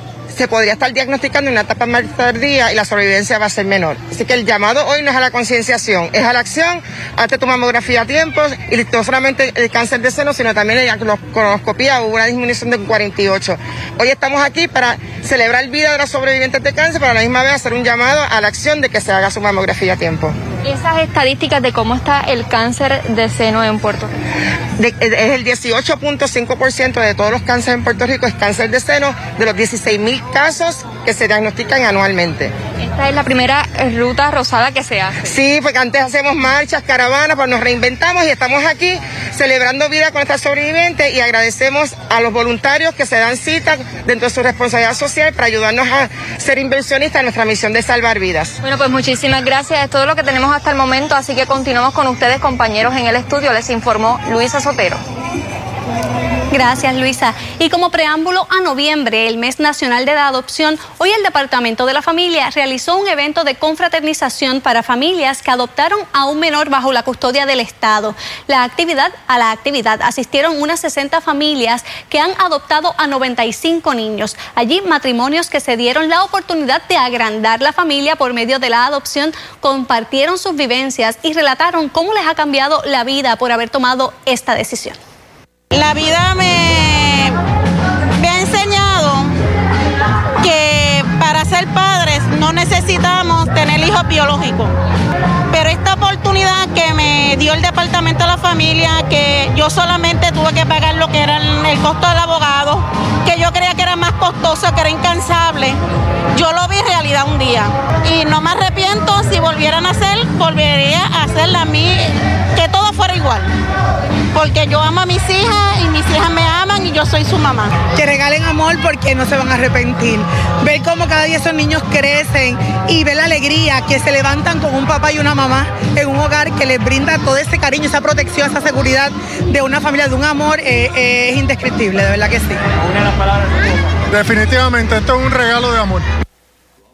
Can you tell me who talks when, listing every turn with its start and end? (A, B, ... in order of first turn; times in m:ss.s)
0:00.3-0:20.3 A
0:20.6-0:24.1 B
0:24.8-0:32.5 A
0:32.8-0:35.2 B
0:35.3-0:48.6 A
0:48.6-0:55.0 B
0:56.5-1:25.0 C
1:25.7-1:27.4 D
1:28.2-1:29.3 D
1:30.4-1:34.7 D
1:35.5-1:45.8 D
1:46.3-1:53.5 D
1:54.3-1:57.8 D
1:57.9-2:12.6 E
2:14.1-2:16.0 F